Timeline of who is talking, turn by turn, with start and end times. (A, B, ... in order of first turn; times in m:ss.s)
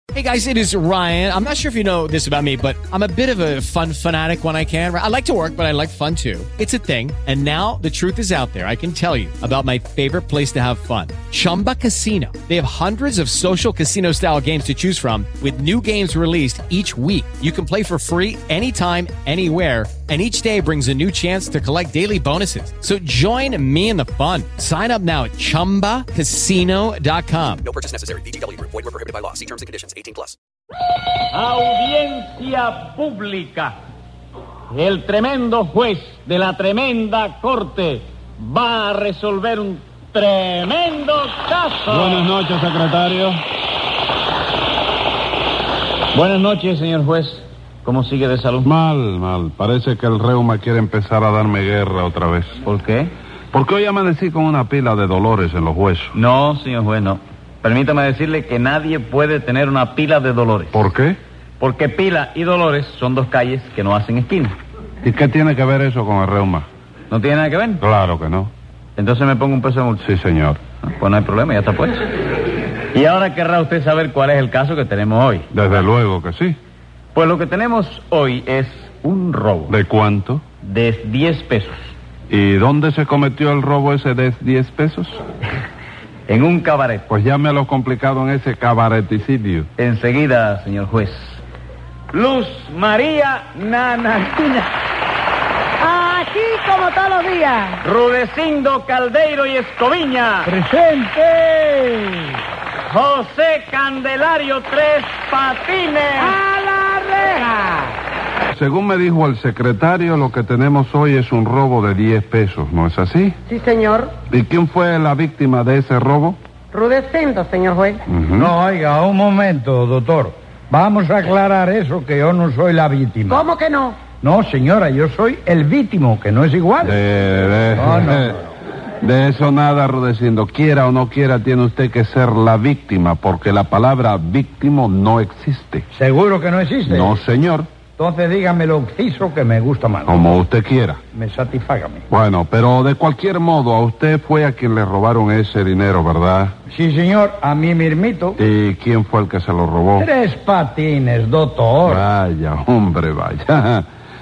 0:00.1-0:27.7 A
0:27.6-0:30.4 B
0:31.3-0:33.8 C
0:34.7-0:42.3 C
0:41.9-0:43.4 D
0:46.1-0:48.7 C
0:48.6-0:52.6 D
0:52.6-0:53.1 C
0:53.5-0:56.2 D
0:56.1-1:00.9 C
1:00.7-1:01.2 D
1:01.6-1:04.6 C
1:05.0-1:06.7 D
1:07.1-1:07.9 C
1:07.8-1:08.5 D
1:09.0-1:10.0 C
1:10.0-1:10.6 D
1:10.8-1:12.0 C
1:12.9-1:15.8 C
1:15.5-1:16.6 D
1:17.1-1:19.8 C
1:19.7-1:20.5 D
1:20.6-1:21.8 C
1:22.3-1:25.2 D
1:26.3-1:27.0 C
1:27.1-1:29.7 D
1:29.8-1:31.4 C
1:32.1-1:34.7 C
1:35.8-1:37.8 E
1:37.8-1:40.5 C
1:40.4-1:42.2 F
1:42.9-1:46.4 C
1:47.1-1:47.4 C
1:48.6-1:53.4 D
1:53.5-1:54.1 E
1:54.3-1:56.4 D
1:56.7-1:58.0 E
1:58.1-1:58.5 D
1:58.4-2:03.5 F
2:03.3-2:04.0 E
2:04.2-2:07.0 F
2:06.8-2:08.4 D
2:07.8-2:08.4 F
2:09.0-2:15.8 D
2:15.9-2:17.2 F
2:16.9-2:17.7 D
2:18.0-2:20.4 F
2:20.1-2:21.0 D
2:21.1-2:22.0 F
2:22.1-2:26.5 D
2:26.7-2:28.4 F
2:28.4-2:30.1 D
2:30.0-2:32.0 F
2:31.9-2:33.8 D